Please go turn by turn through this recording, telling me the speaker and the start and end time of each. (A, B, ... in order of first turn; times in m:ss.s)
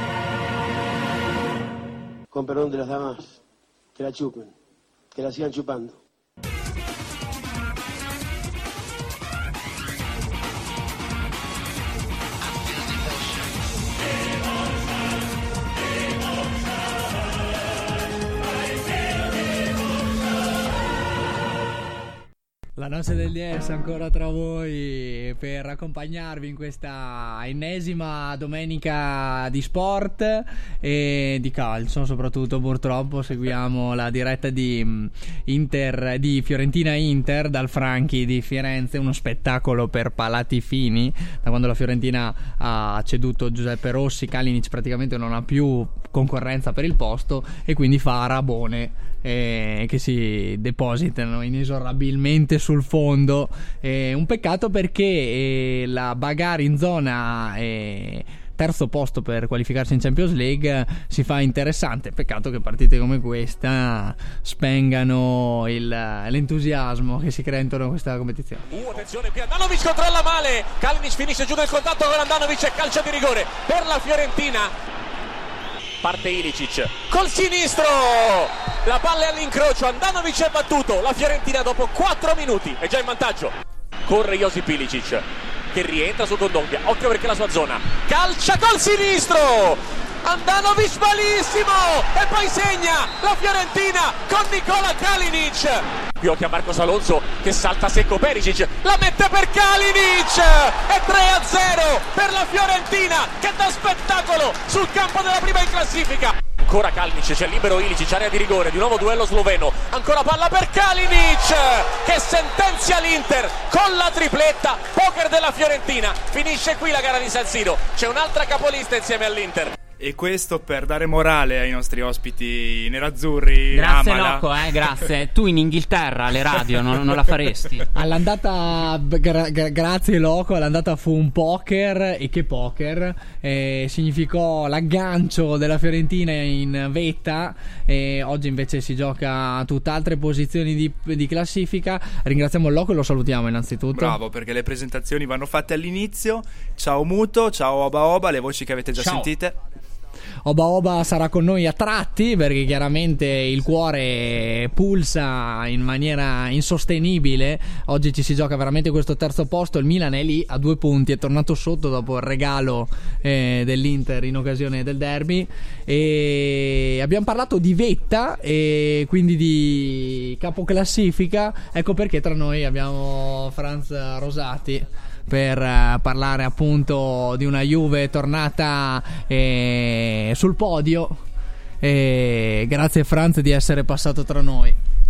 0:02.3-0:03.4 A
0:04.0-0:04.5 A
0:05.1-0:06.0 A
0:22.8-1:08.6 B
1:08.8-1:14.7 C
1:16.0-1:23.5 C
1:24.1-1:59.7 C
2:00.0-2:05.1 D
2:03.7-2:07.9 E
2:07.9-2:24.2 B
2:24.0-2:29.6 D
2:29.0-2:29.4 E
2:30.4-3:01.2 B
3:01.8-3:04.8 B